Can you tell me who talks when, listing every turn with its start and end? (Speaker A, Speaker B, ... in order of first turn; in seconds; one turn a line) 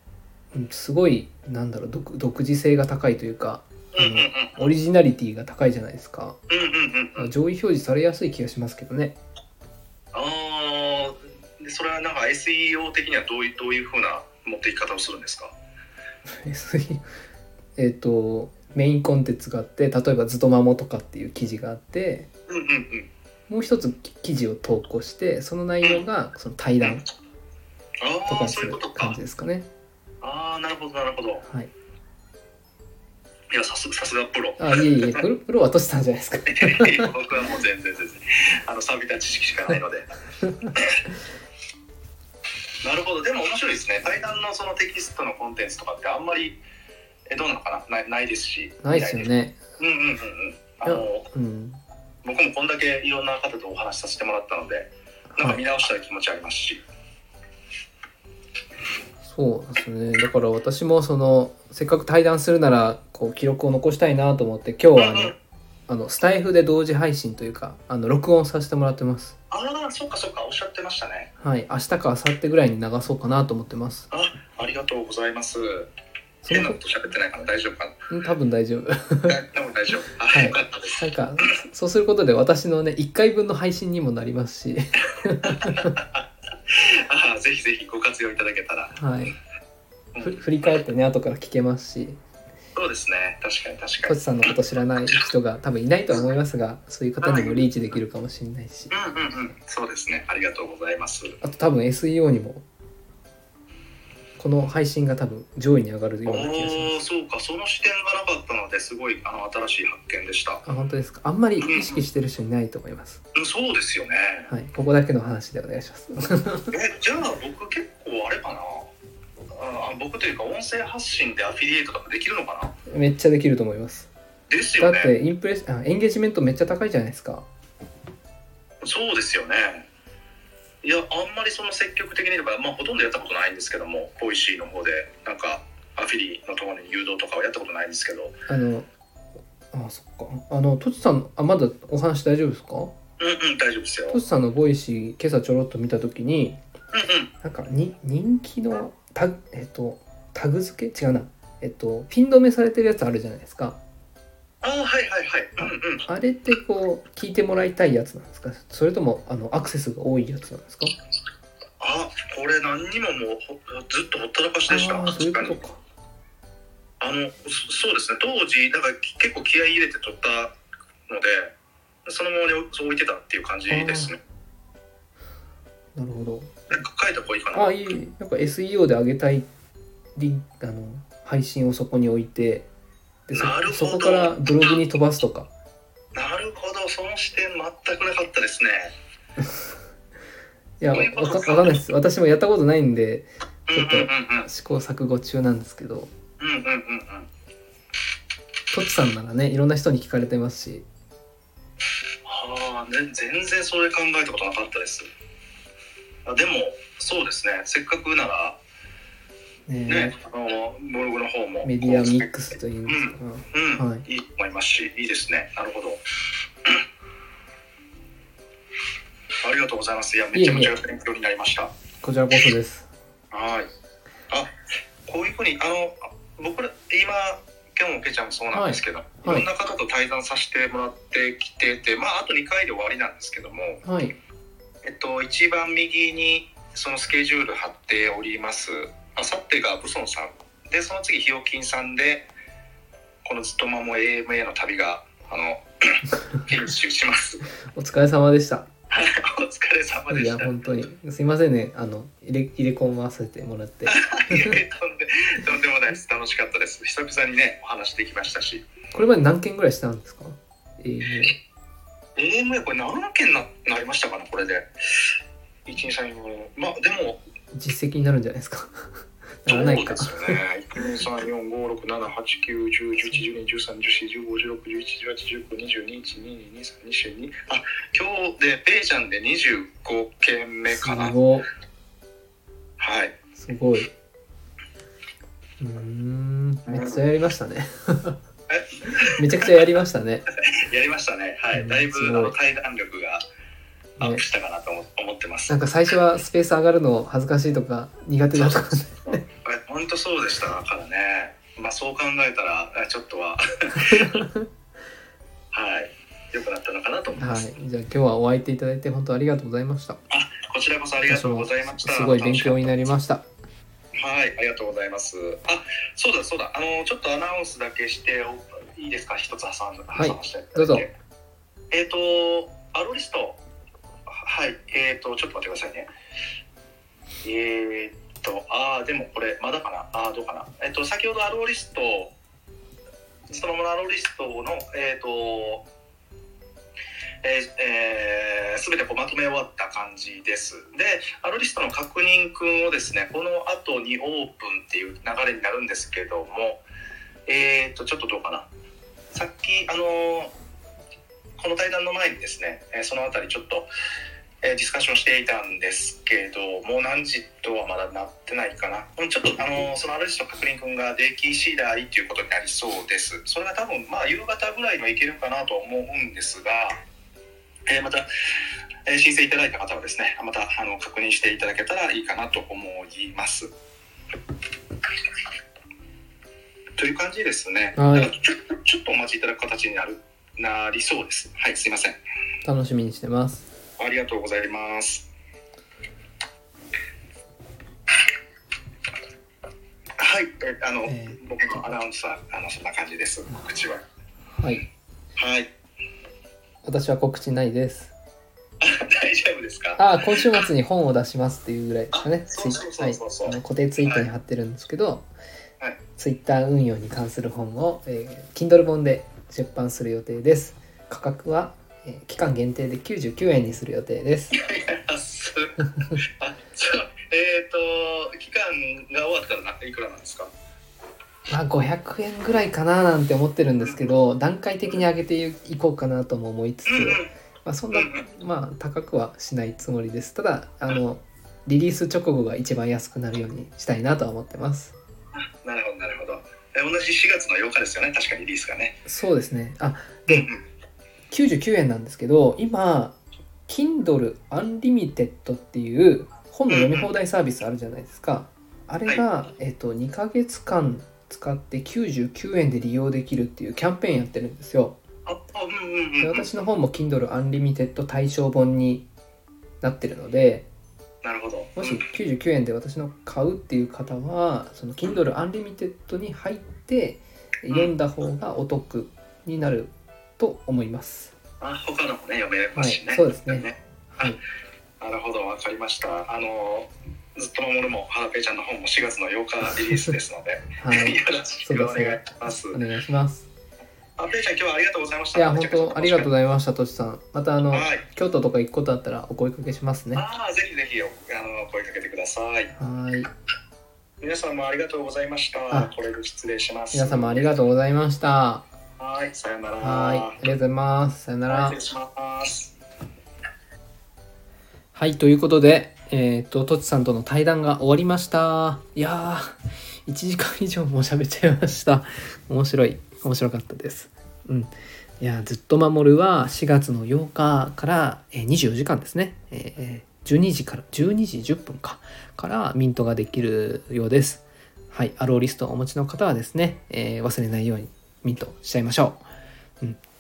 Speaker A: 0.5-6.4
Speaker B: 3.9-4.7
Speaker B: 6.5-7.3
Speaker A: 7.2-9.2
Speaker B: 10.1-15.5
Speaker A: 16.3-17.1
Speaker A: 17.8-22.3
Speaker B: 22.5-23.1
Speaker A: 23.5-27.0
Speaker B: 28.0-29.2
Speaker A: 28.3-29.7
Speaker B: 30.2-31.4
Speaker B: 33.5-35.2
Speaker A: 34.6-37.1
Speaker B: 36.5-40.1
Speaker A: 40.4-40.7
Speaker B: 40.8-41.0
Speaker B: 42.8-46.6
Speaker B: 47.3-51.3
Speaker A: 48.8-49.6
Speaker A: 50.9-51.8
Speaker B: 52.2-56.8
Speaker A: 55.3-55.6
Speaker A: 59.2-65.4
Speaker B: 65.0-65.3
Speaker A: 65.9-69.4
Speaker B: 69.5-71.3
Speaker A: 71.4-74.1
Speaker B: 74.1-75.9
Speaker A: 76.4-76.8
Speaker B: 76.5-78.0
Speaker A: 78.1-79.4
Speaker B: 79.3-81.5
Speaker A: 80.3-86.0
Speaker B: 85.4-89.0
Speaker A: 89.0-89.4
Speaker B: 90.1-90.4
Speaker A: 90.2-92.2
Speaker B: 92.8-94.6
Speaker A: 94.0-98.9
Speaker B: 97.2-97.6
Speaker B: 98.9-101.4
Speaker A: 101.4-102.6
Speaker A: 104.4-107.0
Speaker B: 106.3-110.6
Speaker A: 110.7-113.2
Speaker B: 111.6-112.0
Speaker B: 113.3-114.5
Speaker A: 114.5-116.7
Speaker B: 116.7-118.9
Speaker B: 119.5-122.7
Speaker A: 122.9-124.1
Speaker B: 124.5-125.1
Speaker A: 124.8-127.5
Speaker B: 128.8-129.9
Speaker B: 130.8-138.4
Speaker A: 138.5-138.9
Speaker A: 139.7-142.9
Speaker B: 143.2-144.2
Speaker A: 144.1-146.6
Speaker B: 146.9-147.3
Speaker A: 147.4-153.8
Speaker B: 154.6-156.1
Speaker A: 155.6-160.9
Speaker B: 161.8-165.6
Speaker A: 164.7-165.8
Speaker B: 167.0-170.5
Speaker B: 171.1-171.5
Speaker B: 172.1-174.2
Speaker A: 173.7-174.1
Speaker A: 175.9-176.5
Speaker B: 176.7-177.7
Speaker A: 177.5-179.5
Speaker A: 180.2-182.7
Speaker A: 183.3-185.5
Speaker B: 183.3-184.8
Speaker B: 186.2-188.9
Speaker A: 189.4-189.7
Speaker A: 190.8-196.1
Speaker B: 190.9-191.8
Speaker B: 193.7-194.5
Speaker B: 196.4-197.3
Speaker A: 198.7-200.9
Speaker B: 202.2-205.1
Speaker B: 206.3-208.6
Speaker A: 209.7-210.2
Speaker B: 209.9-212.3
Speaker A: 211.6-214.1
Speaker B: 212.9-216.0
Speaker B: 219.4-221.7
Speaker A: 220.3-220.8
Speaker A: 222.0-222.9
Speaker B: 223.3-223.7
Speaker B: 225.1-233.8
Speaker A: 228.5-229.5
Speaker A: 233.8-234.2
Speaker B: 234.8-242.3
Speaker B: 243.2-247.5
Speaker A: 247.7-248.7
Speaker B: 248.9-250.5
Speaker A: 250.1-254.6
Speaker B: 253.9-258.6
Speaker A: 258.9-261.4
Speaker B: 262.2-265.1
Speaker B: 265.7-267.2
Speaker A: 267.5-270.4
Speaker B: 269.5-281.2
Speaker A: 280.7-281.5
Speaker B: 282.8-283.2
Speaker A: 283.4-283.9
Speaker A: 285.6-288.2
Speaker B: 288.5-289.7
Speaker A: 288.9-290.3
Speaker B: 290.4-293.2
Speaker A: 291.5-292.4
Speaker B: 294.0-295.6
Speaker A: 295.5-299.2
Speaker B: 298.4-304.2
Speaker A: 303.8-304.5
Speaker B: 305.5-307.5
Speaker A: 307.2-310.0
Speaker B: 310.1-312.9
Speaker A: 311.1-313.2
Speaker B: 314.0-320.9
Speaker A: 319.9-320.9
Speaker B: 321.7-323.4
Speaker B: 324.1-325.9
Speaker B: 327.2-332.1
Speaker B: 333.3-335.6
Speaker B: 337.2-346.6
Speaker B: 347.3-348.5
Speaker B: 349.1-350.3
Speaker B: 351.4-353.7
Speaker B: 354.4-366.8
Speaker B: 367.7-368.1
Speaker B: 368.9-373.5
Speaker B: 376.8-382.0
Speaker A: 377.8-378.1
Speaker A: 382.4-383.5
Speaker B: 383.8-385.1
Speaker B: 390.0-393.8
Speaker A: 390.9-391.2
Speaker A: 394.4-394.7
Speaker B: 395.2-395.5
Speaker A: 396.6-397.9
Speaker B: 398.6-399.8
Speaker A: 399.8-405.1
Speaker B: 401.9-404.1
Speaker A: 406.0-414.4
Speaker B: 414.4-420.3
Speaker A: 421.3-434.7
Speaker B: 426.7-427.1
Speaker B: 427.7-428.1
Speaker B: 435.2-438.8
Speaker A: 438.9-440.3
Speaker B: 440.1-440.4
Speaker A: 441.1-443.0
Speaker A: 443.5-454.8
Speaker B: 446.5-446.9
Speaker B: 455.1-456.3
Speaker A: 456.0-458.9
Speaker A: 459.6-460.5
Speaker B: 461.0-461.8
Speaker A: 461.6-471.1
Speaker B: 471.4-474.2
Speaker A: 472.6-474.2
Speaker B: 474.8-482.6
Speaker A: 480.6-483.3
Speaker B: 484.0-486.1
Speaker A: 485.1-490.0
Speaker B: 487.5-487.8
Speaker B: 489.9-492.5
Speaker A: 492.6-493.1
Speaker B: 494.0-497.4
Speaker A: 496.7-498.4
Speaker B: 498.8-500.2
Speaker A: 499.6-501.6
Speaker B: 501.3-502.5
Speaker A: 504.8-529.0